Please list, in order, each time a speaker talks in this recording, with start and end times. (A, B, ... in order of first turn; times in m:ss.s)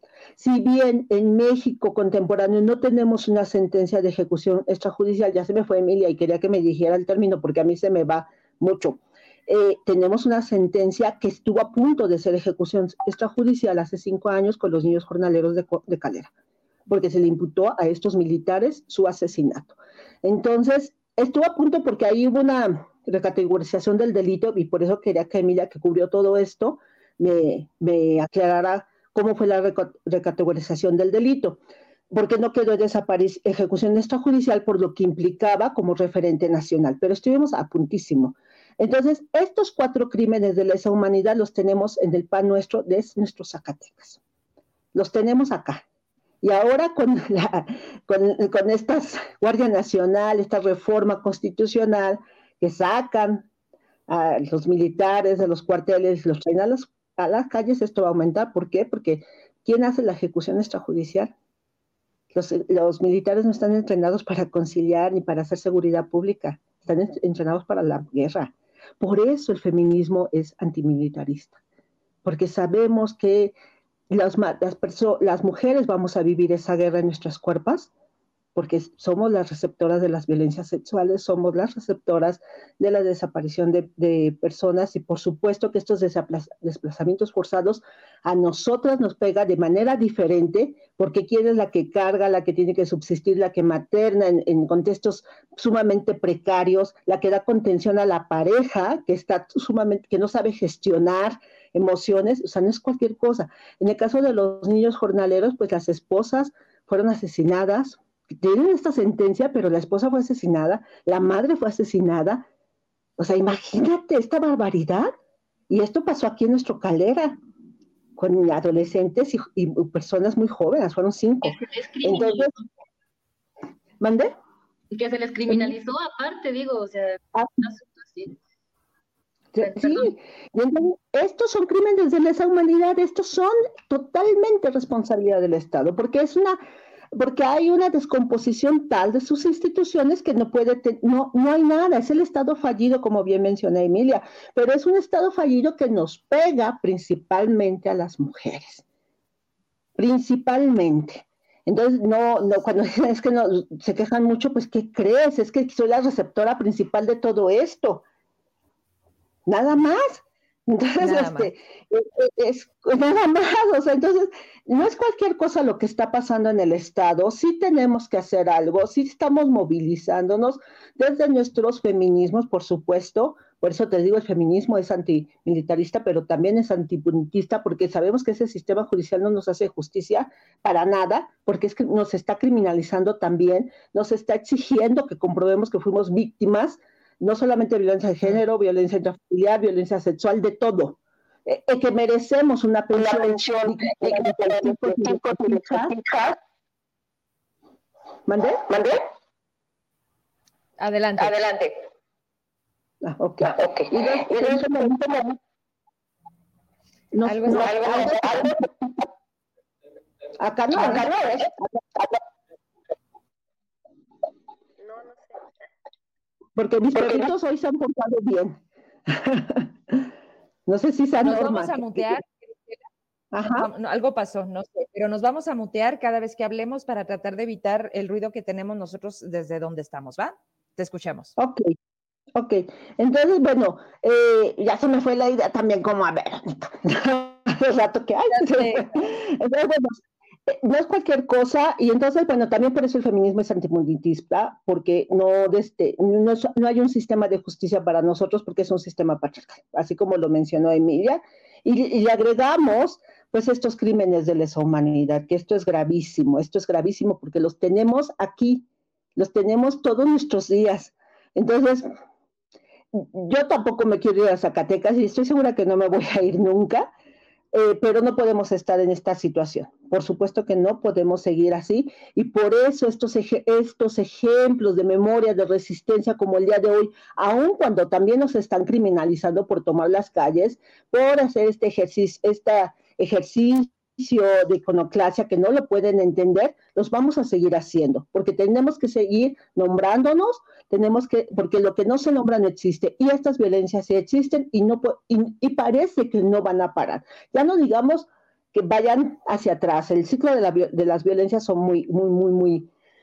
0:00.4-0:16.3 A
0:16.9-0:31.6 A
0:32.1-0:44.2 A
0:44.9-0:45.8 A
0:46.4-0:53.5 A
0:54.1-1:01.3 A
1:02.3-1:11.6 A
1:12.2-1:13.6 A
1:14.1-1:17.9 A
1:18.6-1:52.5 A
1:53.2-1:55.1 A
1:55.7-1:57.4 A
1:58.2-2:02.5 A
2:01.4-2:02.7 B
2:04.0-2:04.3 A
2:04.9-2:08.4 B
2:05.5-2:05.8 A
2:09.5-2:16.6 A
2:09.6-2:10.1 B
2:17.2-2:28.8 A
2:30.0-2:38.0 A
2:39.5-3:15.9 A
2:41.0-2:41.5 C
3:18.3-3:19.0 A
3:20.8-3:21.5 C
3:23.0-3:25.3 A
3:27.1-3:28.6 A
3:27.2-3:28.2 C
3:30.4-3:32.2 A
3:36.6-3:40.0 A
3:40.7-3:42.2 A
3:41.2-3:42.8 C
3:43.3-3:43.7 A
3:43.4-3:51.3 C
3:51.4-3:51.7 A
3:52.4-4:18.6 A
3:58.3-3:58.9 C
4:19.2-4:21.9 A
4:22.9-4:26.9 A
4:27.5-5:02.7 A